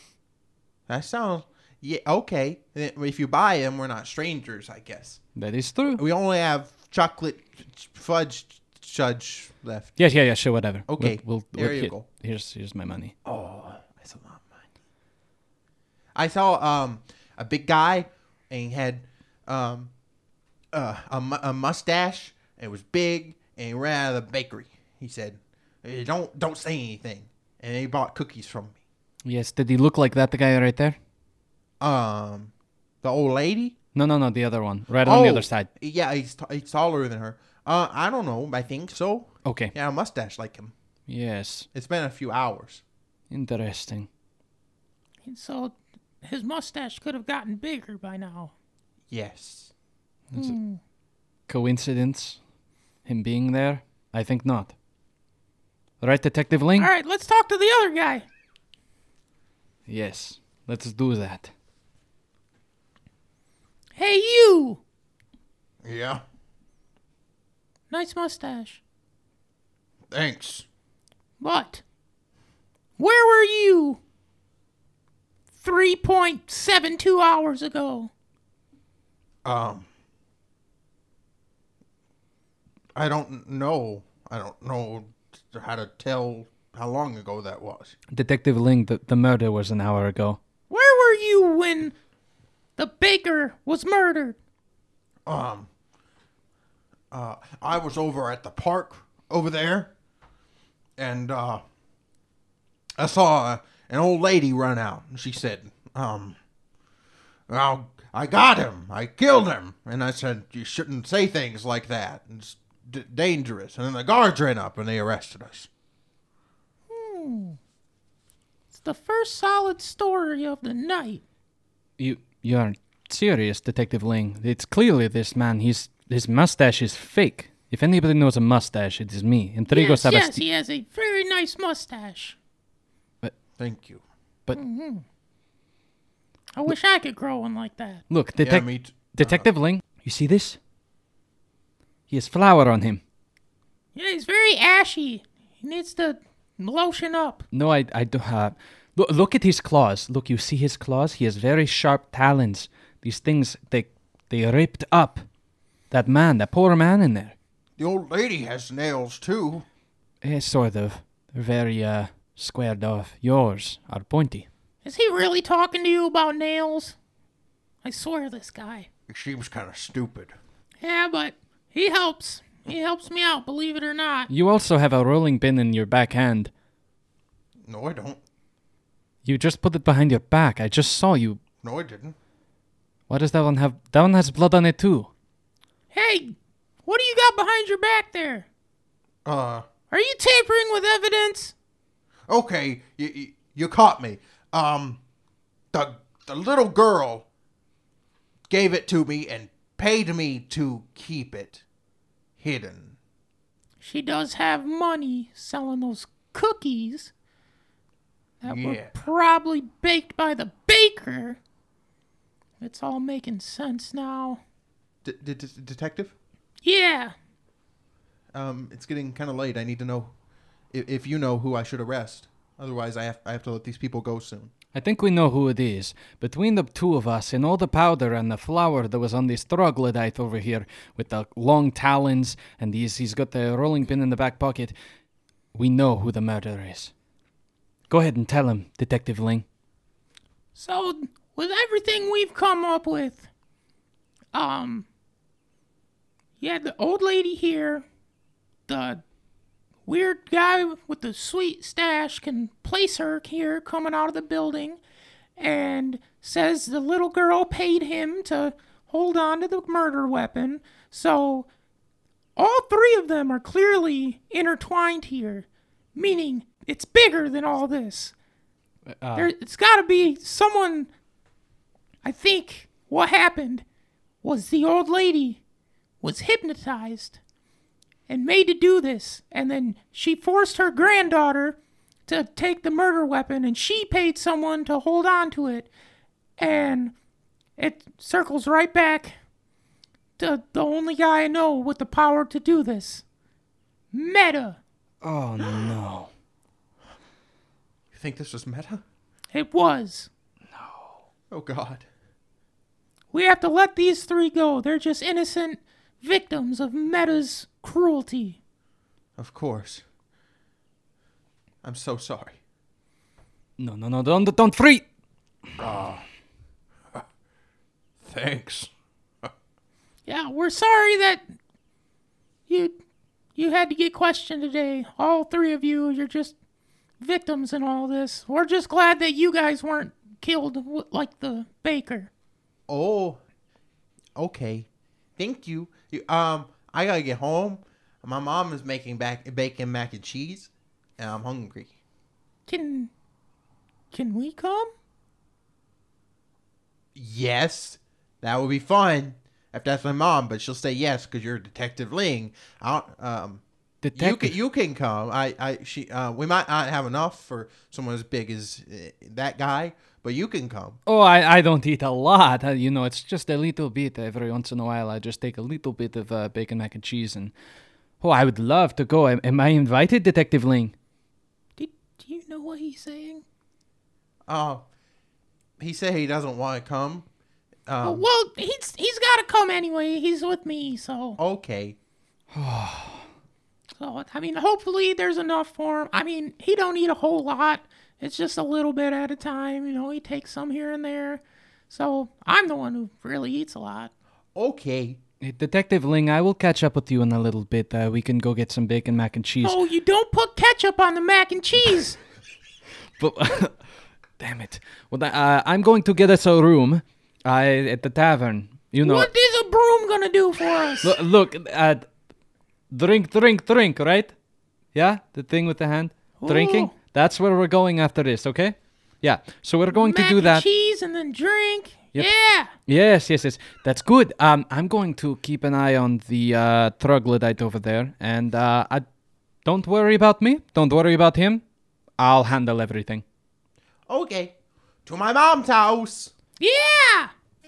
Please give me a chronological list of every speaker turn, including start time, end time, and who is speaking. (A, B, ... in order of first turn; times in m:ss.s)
0:00.9-0:05.2 A
0:05.4-0:06.0 B
0:05.9-0:10.0 A
0:10.0-0:13.1 B
0:10.9-0:12.1 A
0:13.2-0:14.6 A
0:16.1-0:19.9 A
0:20.7-0:28.8 A
0:29.2-0:31.0 B
0:31.8-0:33.7 A
0:33.9-0:35.7 B
0:35.0-0:40.7 A
0:39.4-0:39.7 B
0:41.1-0:41.7 B
0:41.7-0:42.8 A
0:43.3-0:44.1 B
0:45.2-0:48.5 C
0:49.1-0:49.7 A
0:50.3-0:50.8 C
0:51.5-0:52.4 B
0:53.0-0:54.7 B
0:56.0-0:56.9 B
0:56.8-0:58.2 C
0:59.9-1:01.5 B
1:04.0-1:04.8 C
1:05.8-1:06.2 A
1:07.9-1:08.8 C
1:10.1-1:10.6 A
1:11.4-1:11.8 C
1:13.0-1:14.0 C
1:15.6-1:18.1 C
1:19.4-1:19.9 A
1:22.9-1:27.9 A
1:28.1-1:30.4 B
1:30.7-1:31.9 C
1:32.8-1:34.4 C
1:35.2-1:35.7 A
1:37.1-1:39.9 A
1:41.0-1:41.6 A
1:43.0-1:46.4 A
1:47.5-1:55.7 A
1:56.9-1:57.6 C
1:58.7-2:01.2 C
2:02.0-2:10.4 B
2:09.7-2:12.4 C
2:13.6-2:14.0 A
2:14.5-2:15.0 C
2:16.5-2:18.0 C
2:18.1-2:20.6 B
2:18.4-2:19.5 A
2:22.1-2:23.0 B
2:23.9-2:27.4 C
2:27.5-2:35.2 B
2:35.9-2:37.3 B
2:37.8-2:39.6 A
2:40.2-2:44.5 B
2:44.8-2:47.0 C
2:47.8-2:48.9 C
2:49.1-2:50.4 A
2:50.8-2:54.3 C
2:54.3-2:56.5 B
2:57.6-2:58.2 A
2:59.2-3:01.4 B
3:01.6-3:02.1 A
3:03.1-3:05.1 B
3:05.9-3:08.5 C
3:09.2-3:09.6 A
3:09.9-3:11.5 C
3:12.3-3:15.0 A
3:15.7-3:17.2 A
3:18.5-3:21.6 A
3:22.4-3:23.0 A
3:23.8-3:27.1 C
3:28.4-3:31.4 C
3:28.4-3:29.0 A
3:32.6-3:34.4 C
3:35.0-3:36.1 A
3:36.6-3:37.1 C
3:38.3-3:40.1 A
3:40.7-3:44.5 A
3:44.7-3:54.7 B
3:55.5-3:56.9 B
3:57.9-3:59.4 B
4:00.5-4:03.3 C
4:04.3-4:04.9 C
4:06.4-4:07.8 C
4:08.7-4:09.0 C
4:09.8-4:14.8 C
4:15.4-4:21.5 C
4:22.4-4:28.1 C
4:28.9-4:29.3 B
4:29.1-4:30.9 C
4:32.0-4:33.6 C
4:34.2-4:35.4 C
4:36.0-4:37.2 C
4:38.1-4:45.7 C
4:46.4-4:46.9 C
4:47.6-4:49.2 C
4:50.2-4:53.0 C
4:53.9-4:54.6 C
4:55.0-4:56.1 B
4:57.9-4:58.8 A
4:59.3-5:00.1 C
5:00.6-5:01.0 B
5:01.3-5:01.8 A
5:03.1-5:08.4 C
5:09.2-5:09.8 A
5:11.6-5:12.4 A
5:13.6-5:14.8 B
5:15.6-5:16.0 A
5:18.0-5:18.7 A
5:20.0-5:21.2 C
5:22.5-5:22.8 C
5:23.3-5:26.3 C
5:27.0-5:32.1 C
5:32.7-5:33.2 A
5:34.2-5:41.8 A
5:42.4-5:42.9 C
5:43.9-5:44.7 C
5:46.9-5:53.4 A
5:53.8-5:54.3 B
5:53.9-6:00.8 A
6:00.9-6:07.3 B
6:08.0-6:10.7 B
6:11.6-6:13.2 C
6:14.3-6:14.6 A
6:15.6-6:17.0 A
6:17.6-6:18.1 A
6:17.8-6:21.2 C
6:21.2-6:21.8 A
6:22.3-6:23.0 B
6:23.8-6:33.9 C
6:34.3-6:35.0 A
6:35.2-6:39.6 B
6:39.4-6:42.0 C
6:43.0-6:43.6 B
6:44.2-6:49.1 B
6:48.8-6:51.0 C
6:50.8-6:51.8 B
6:52.7-6:54.1 B
6:54.7-7:00.4 B
6:56.2-6:56.7 C
6:59.7-7:02.5 C
7:02.7-7:08.8 B
7:09.4-7:11.4 B
7:12.0-7:13.0 B
7:13.9-7:14.3 A
7:14.8-7:16.1 A
7:16.4-7:17.1 C